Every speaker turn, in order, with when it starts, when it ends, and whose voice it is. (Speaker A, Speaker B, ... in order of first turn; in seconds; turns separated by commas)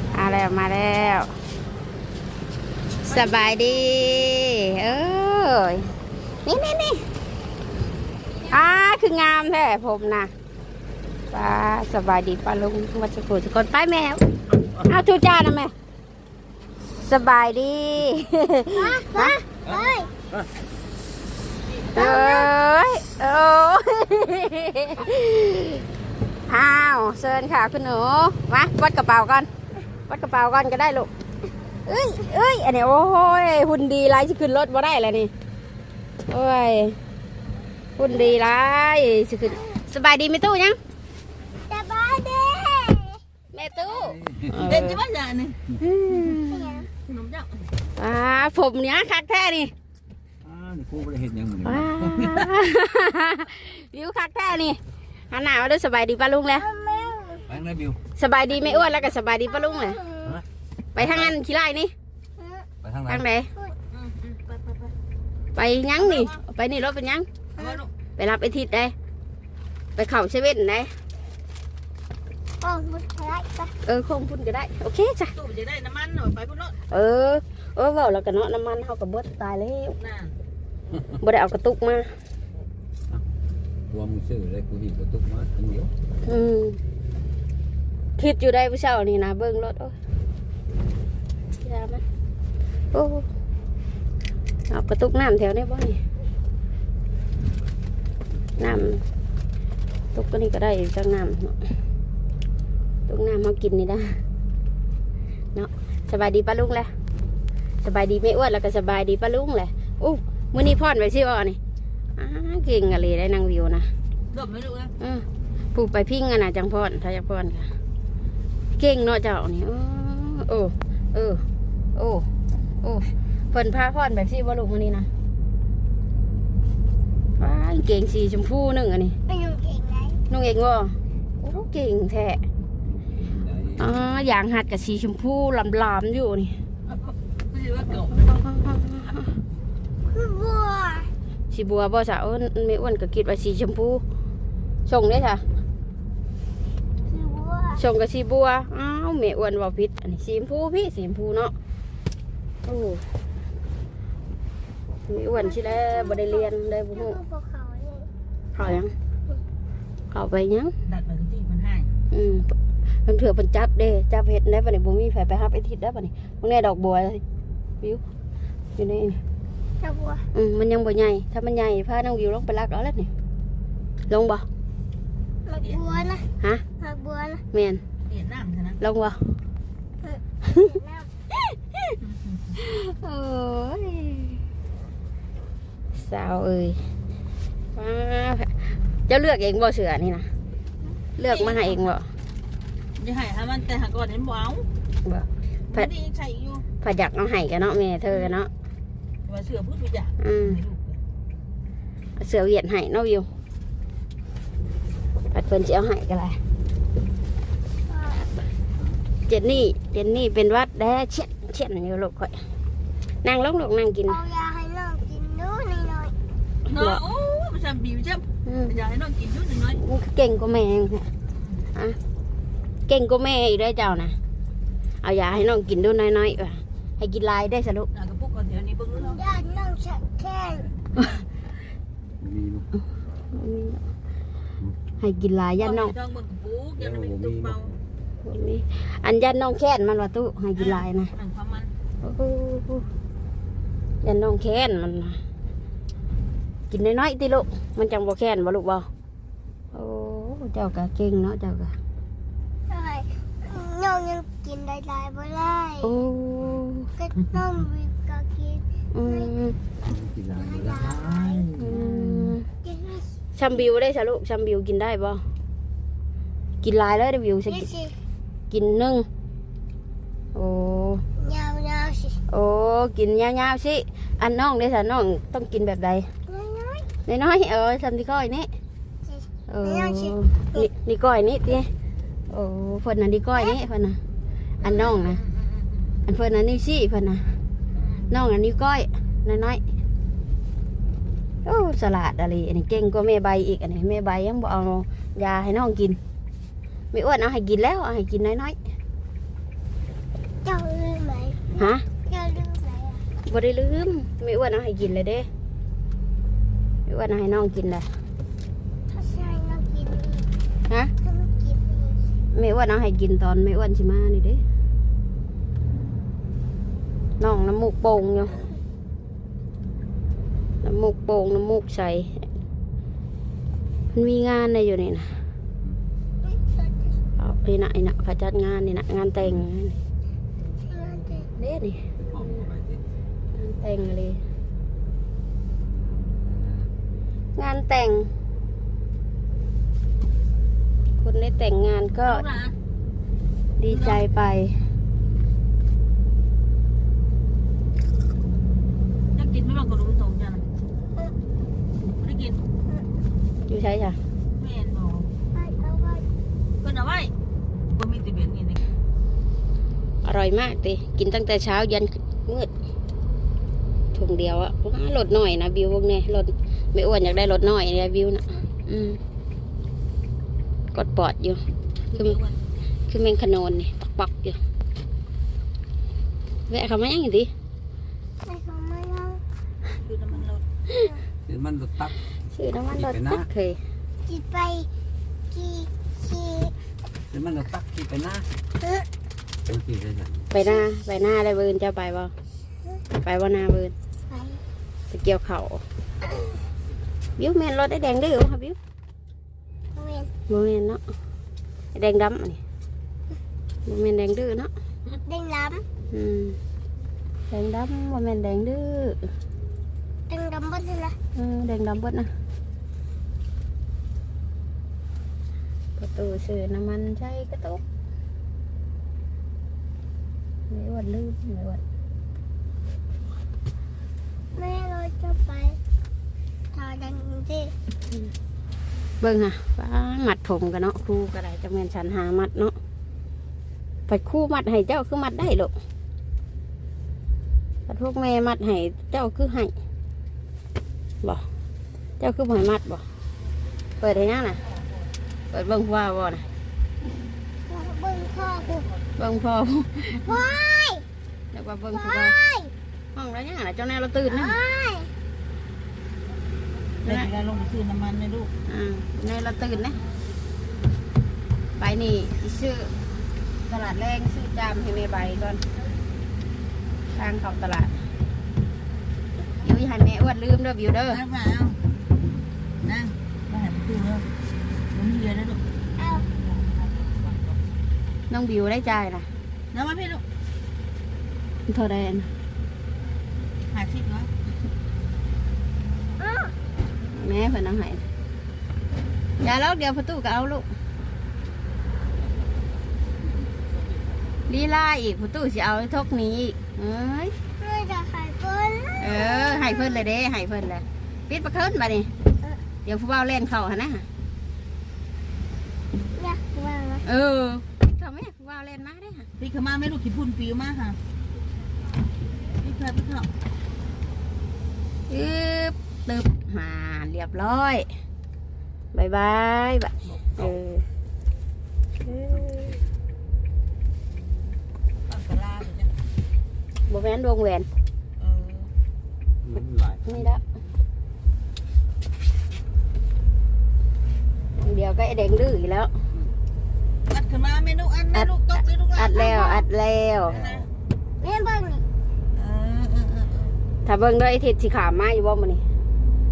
Speaker A: 0.1-1.3, Speaker A: 3.0-5.9, Speaker B: 3.1-4.2, Speaker A: 6.4-7.0, Speaker A: 8.5-10.3, Speaker A: 11.3-14.2, Speaker A: 14.8-15.7, Speaker A: 17.0-19.4, Speaker C: 18.7-20.1, Speaker D: 19.7-20.5, Speaker C: 21.9-22.5, Speaker A: 21.9-25.8, Speaker A: 26.5-29.5, Speaker A: 30.1-31.1, Speaker A: 31.9-35.3, Speaker A: 36.3-37.0, Speaker A: 38.0-40.8, Speaker C: 41.6-43.2, Speaker A: 43.5-45.0, Speaker D: 43.9-44.9, Speaker B: 44.6-45.6, Speaker A: 45.8-46.6, Speaker C: 46.5-46.9, Speaker B: 47.0-47.7, Speaker A: 48.0-49.7, Speaker D: 50.5-52.5, Speaker A: 51.6-56.7, Speaker C: 56.5-57.5, Speaker D: 57.5-58.0, Speaker A: 58.2-60.0, Speaker C: 59.5-60.4, Speaker A: 61.0-61.9, Speaker D: 61.0-61.3, Speaker C: 62.4-62.7, Speaker D: 62.8-63.2, Speaker A: 63.1-63.5, Speaker B: 63.9-64.9, Speaker A: 65.5-67.3, Speaker B: 66.0-66.4, Speaker B: 67.6-67.9, Speaker A: 68.2-68.9, Speaker A: 70.0-70.9, Speaker C: 72.6-73.7, Speaker A: 73.8-75.3, Speaker B: 75.3-76.8, Speaker A: 76.9-80.0, Speaker B: 80.0-80.4, Speaker A: 81.2-82.1, Speaker D: 83.9-85.9, Speaker A: 86.2-86.8, Speaker A: 88.2-90.0, Speaker A: 91.6-92.0, Speaker A: 92.9-93.2, Speaker A: 94.7-96.0, Speaker A: 98.6-99.0, Speaker A: 100.1-101.6, Speaker A: 103.1-104.2, Speaker A: 105.5-106.9, Speaker A: 107.8-111.6, Speaker A: 112.2-113.9, Speaker B: 114.3-114.9, Speaker A: 115.0-117.7, Speaker A: 118.8-121.4, Speaker A: 122.0-122.3, Speaker A: 122.8-125.1, Speaker A: 127.4-129.2, Speaker C: 129.2-130.2, Speaker A: 130.3-132.4, Speaker D: 132.8-133.9, Speaker A: 133.8-136.6, Speaker B: 136.9-138.4, Speaker A: 138.2-139.3, Speaker C: 140.1-141.1, Speaker A: 141.5-144.0, Speaker A: 144.8-145.4, Speaker C: 147.1-147.8, Speaker A: 147.8-151.5, Speaker A: 152.7-153.0, Speaker A: 155.1-157.2, Speaker C: 155.3-158.1, Speaker A: 158.5-158.9, Speaker A: 160.1-160.7, Speaker B: 160.9-161.9, Speaker A: 162.1-162.5, Speaker A: 163.1-167.2, Speaker A: 168.8-169.2, Speaker C: 169.8-170.3, Speaker A: 170.3-173.1, Speaker A: 174.1-174.4, Speaker C: 175.4-177.4, Speaker B: 175.6-176.1, Speaker A: 177.5-177.8, Speaker B: 178.1-178.8, Speaker A: 178.8-179.2, Speaker C: 180.0-181.1, Speaker A: 181.5-181.9, Speaker B: 182.0-182.4, Speaker A: 182.6-184.4, Speaker A: 185.9-186.8, Speaker A: 187.8-190.3, Speaker A: 191.2-192.1, Speaker B: 191.2-191.9, Speaker B: 193.0-194.7, Speaker A: 195.0-195.9, Speaker B: 195.7-196.7, Speaker A: 196.8-198.5, Speaker B: 199.2-201.0, Speaker A: 200.2-200.6, Speaker A: 202.2-203.3, Speaker A: 205.3-206.4, Speaker C: 207.9-208.3, Speaker A: 209.3-212.4, Speaker A: 213.2-214.2, Speaker C: 214.1-216.1, Speaker B: 216.7-219.8, Speaker A: 216.7-217.0, Speaker A: 218.4-218.7, Speaker A: 219.7-221.1, Speaker A: 222.9-224.2, Speaker A: 225.0-227.9, Speaker B: 227.9-229.2, Speaker C: 228.9-230.7, Speaker D: 232.2-232.7, Speaker A: 233.3-233.8, Speaker A: 235.0-235.9, Speaker B: 235.6-237.7, Speaker D: 236.8-237.6, Speaker A: 238.2-241.1, Speaker B: 240.6-241.7, Speaker A: 242.0-242.8, Speaker A: 244.0-245.2, Speaker A: 246.7-248.9, Speaker A: 249.7-251.7, Speaker C: 252.7-255.9, Speaker A: 255.8-256.9, Speaker C: 257.0-259.3, Speaker A: 258.9-259.6, Speaker D: 259.8-261.9, Speaker C: 260.3-261.5, Speaker A: 261.6-262.4, Speaker C: 262.6-263.2, Speaker A: 263.3-265.2, Speaker A: 266.6-267.7, Speaker C: 267.5-268.0, Speaker A: 268.5-269.1, Speaker A: 270.3-271.0, Speaker C: 271.2-272.2, Speaker A: 272.3-276.1, Speaker C: 276.3-276.9, Speaker A: 277.1-278.5, Speaker C: 279.0-280.7, Speaker A: 279.5-281.7, Speaker A: 282.3-284.0, Speaker A: 284.6-285.2, Speaker B: 284.7-286.0, Speaker A: 286.1-287.4, Speaker B: 287.8-288.1, Speaker A: 288.1-289.6, Speaker A: 291.4-296.0, Speaker A: 296.9-298.6, Speaker C: 300.4-303.0, Speaker A: 301.6-301.9, Speaker A: 303.2-305.3, Speaker A: 306.9-307.9, Speaker C: 308.9-310.3, Speaker C: 311.0-312.0, Speaker A: 312.3-314.4, Speaker A: 317.2-318.4, Speaker A: 320.6-322.3, Speaker A: 323.9-325.2, Speaker C: 326.2-327.0, Speaker A: 327.2-329.8, Speaker C: 330.6-331.3, Speaker A: 331.3-331.8, Speaker D: 332.0-332.9, Speaker A: 333.3-334.2, Speaker D: 335.6-336.7, Speaker A: 337.4-338.1, Speaker A: 341.0-342.2, Speaker B: 342.0-342.6, Speaker A: 343.6-344.6, Speaker B: 343.6-344.0, Speaker B: 349.1-350.4, Speaker B: 352.0-352.4, Speaker A: 353.4-354.0, Speaker B: 354.4-355.1, Speaker C: 355.3-356.1, Speaker B: 356.6-357.1, Speaker B: 357.7-358.6, Speaker A: 360.0-362.5, Speaker A: 363.9-369.0, Speaker A: 370.7-371.4, Speaker B: 371.9-372.4, Speaker A: 372.9-374.4, Speaker A: 376.5-377.3, Speaker C: 378.2-379.2, Speaker B: 379.8-380.4, Speaker D: 381.2-382.0, Speaker A: 382.3-383.6, Speaker D: 382.8-383.3, Speaker C: 384.0-384.7, Speaker C: 385.3-386.5, Speaker D: 387.1-388.3, Speaker D: 389.5-390.3, Speaker A: 390.3-392.1, Speaker A: 393.0-393.7, Speaker C: 394.1-394.4, Speaker A: 394.9-395.6, Speaker A: 397.2-398.6, Speaker C: 399.8-400.1, Speaker A: 400.3-400.8, Speaker A: 401.7-402.4, Speaker A: 403.6-404.5, Speaker C: 405.0-405.6, Speaker A: 405.9-406.4, Speaker A: 407.3-409.1, Speaker C: 410.1-411.0, Speaker A: 411.1-412.1, Speaker A: 415.8-417.6, Speaker A: 420.5-421.6, Speaker C: 424.3-425.6, Speaker C: 426.5-427.5, Speaker A: 429.0-432.5, Speaker A: 433.9-435.5, Speaker A: 437.7-439.5, Speaker A: 442.0-442.8, Speaker A: 443.8-444.4, Speaker A: 445.3-446.2, Speaker C: 447.5-448.7, Speaker A: 449.0-450.0, Speaker C: 450.0-450.9, Speaker A: 451.3-452.1, Speaker C: 451.7-452.5, Speaker A: 452.9-454.4, Speaker C: 454.1-454.9, Speaker B: 456.8-458.3, Speaker A: 458.5-459.8, Speaker A: 461.6-462.8, Speaker A: 463.4-465.4, Speaker A: 466.9-467.7, Speaker A: 469.4-471.0, Speaker B: 470.9-471.6, Speaker B: 472.6-474.1, Speaker B: 474.7-475.4, Speaker C: 475.8-476.1, Speaker B: 476.2-477.4, Speaker A: 478.1-479.1, Speaker B: 479.5-480.0, Speaker A: 481.5-482.1, Speaker B: 483.5-484.1, Speaker C: 486.0-486.3, Speaker A: 486.9-487.8, Speaker A: 489.2-490.4, Speaker A: 494.3-497.1, Speaker C: 497.4-499.8, Speaker A: 498.8-501.9, Speaker A: 502.6-503.9, Speaker C: 505.9-506.8, Speaker A: 506.9-509.1, Speaker B: 509.2-510.8, Speaker B: 512.4-513.1, Speaker A: 514.9-517.7, Speaker A: 518.7-520.6, Speaker D: 519.9-520.4, Speaker A: 521.9-522.5, Speaker B: 524.9-525.7, Speaker A: 526.7-527.5, Speaker B: 528.0-528.5, Speaker D: 529.2-530.1, Speaker A: 529.9-530.2, Speaker A: 534.4-535.7, Speaker B: 536.9-539.4, Speaker A: 538.8-540.1, Speaker B: 540.0-540.5, Speaker D: 540.1-540.5, Speaker C: 541.0-541.6, Speaker B: 542.1-543.4, Speaker A: 543.6-545.4